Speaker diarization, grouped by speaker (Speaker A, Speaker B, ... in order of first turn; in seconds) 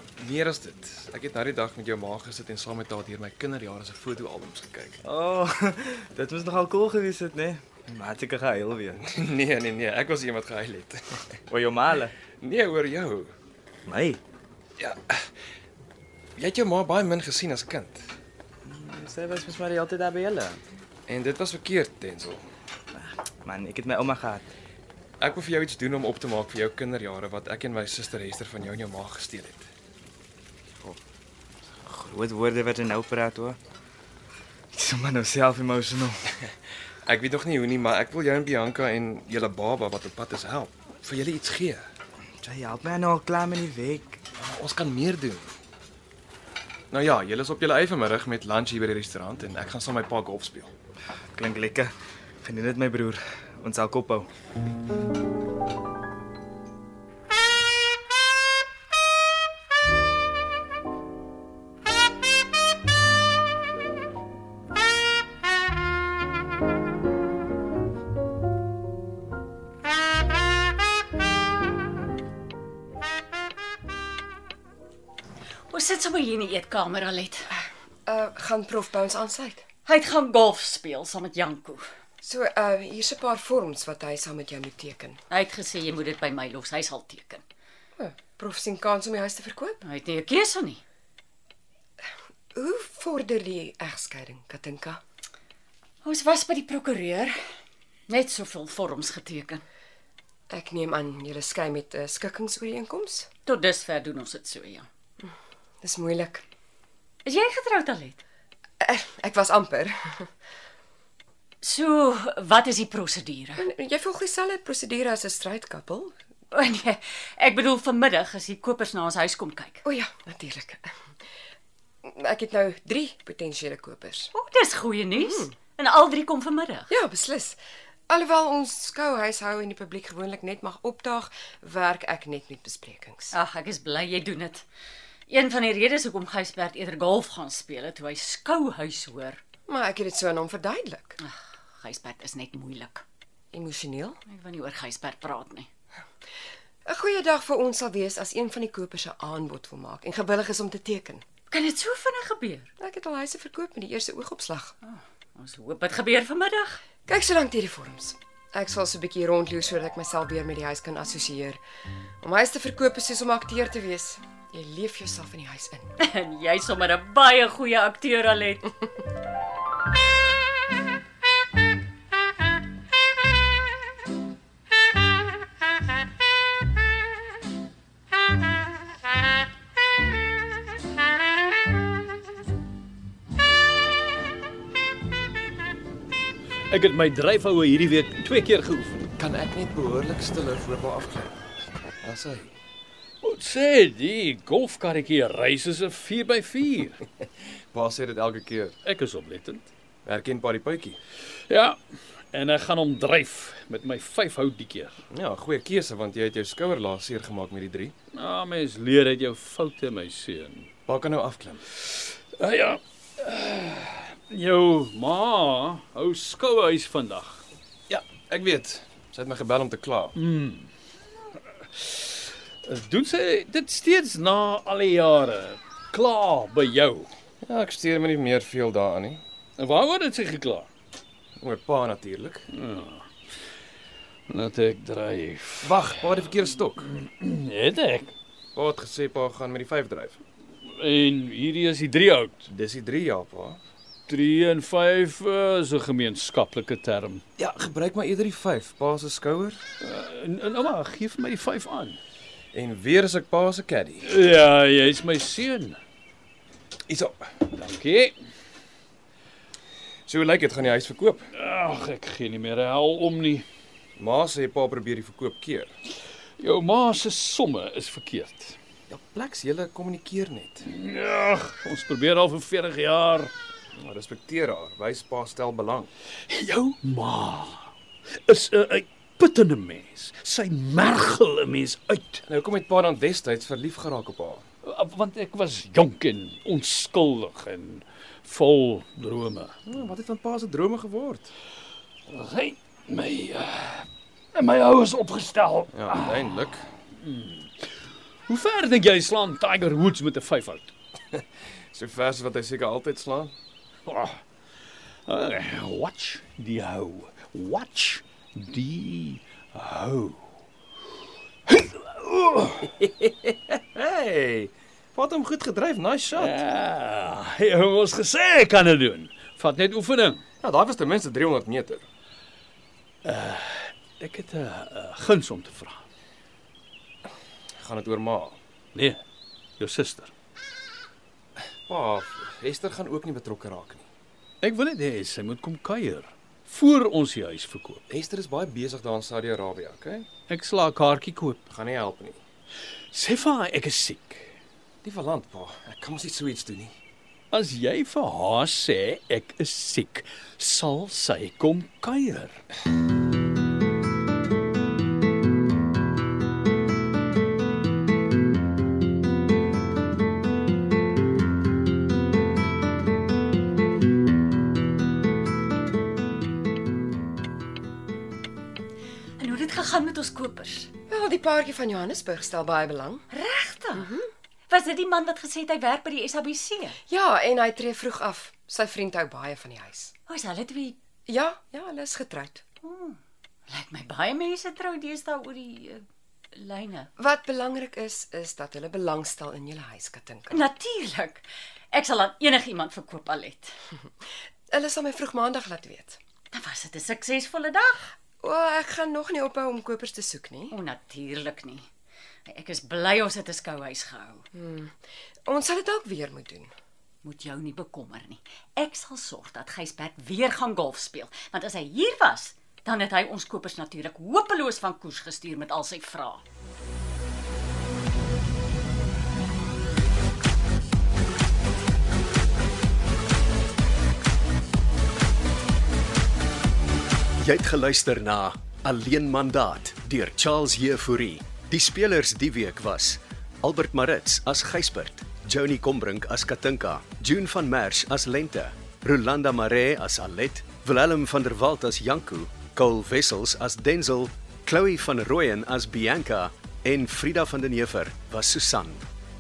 Speaker A: 0.2-5.0, 9.0-11.0, 12.4-13.3, 14.8-15.3, 16.4-18.1, 21.1-22.4, 25.2-29.7, 37.1-41.9, 44.4-45.5, 46.9-50.7, 189.2-191.4, 192.0-192.5, 197.7-198.8, 200.1-201.0, 205.1-207.9, 210.9-211.6, 217.9-220.2, 227.4-229.2, 231.4-232.4, 235.6-236.9, 238.6-240.2, 242.5-243.6, 247.4-249.6, 252.5-254.1, 256.9-257.4, 260.1-261.3, 264.0-265.7, 268.9-270.7, 273.8-275.9, 282.3-284.4, 289.7-291.3, 295.7-296.7, 301.1-303.3, 312.8-316.4, 320.4-321.9, 327.6-328.4, 331.7-333.9, 337.9-340.1, 341.5-342.2, 344.8-346.8
Speaker B: 5.0-9.0, 11.5-12.1, 13.9-14.2, 18.6-20.6, 22.9-24.5, 31.9-33.6, 34.7-36.2, 42.4-44.2, 51.3-51.9, 52.4-54.3
Speaker C: 75.7-77.5, 79.9-81.8, 85.3-87.4, 89.8-90.8, 96.0-97.4, 98.1-99.6, 103.5-104.9, 107.2-108.2, 111.6-113.7, 116.5-119.8, 124.3-126.9, 133.3-134.7, 135.3-139.4, 141.2-143.0, 144.3-145.7, 151.5-152.7, 154.8-156.8, 166.0-168.7, 369.2-370.7, 373.1-373.9, 374.5-376.8, 380.1-380.8, 382.6-386.9, 390.3-393.6, 396.3-397.9, 400.5-401.7, 402.3-404.2, 407.0-416.2
Speaker D: 77.6-79.7, 82.2-85.2, 88.0-89.8, 92.5-95.0, 100.5-103.3, 105.8-106.4, 108.8-110.2, 113.6-116.1, 119.8-120.9, 122.0-124.3, 125.2-125.5, 126.9-127.6, 128.1-133.3, 139.7-141.2, 143.5-144.2, 146.9-151.2, 152.8-154.7, 157.1-161.6, 162.2-165.9, 370.9-373.1, 373.8-374.1, 376.9-379.9, 381.1-382.4, 387.0-390.4, 394.5-396.0, 398.2-400.5, 404.3-404.8, 405.3-406.5
Speaker E: 186.7-189.0, 193.2-197.0, 198.8-199.7, 201.5-201.8, 202.3-205.0, 208.1-210.7, 212.4-217.4, 220.2-220.7, 222.6-227.1, 229.6-230.7, 232.5-233.1, 234.3-235.8, 236.9-238.2, 240.7-242.5, 244.1-247.2, 249.8-252.0, 254.0-255.8, 257.5-258.2, 261.3-263.5, 266.4-268.6, 270.7-273.3, 276.3-277.7, 278.3-282.2, 284.6-289.6, 292.1-296.2, 297.0-297.5, 298.3-300.7, 303.9-304.2, 305.1-310.2, 311.5-312.8, 316.1-320.2, 323.0-325.8, 328.7-329.0, 329.6-330.1, 334.4-337.8, 340.3-341.5, 342.9-344.4, 347.3-352.4
Speaker F: 427.2-448.8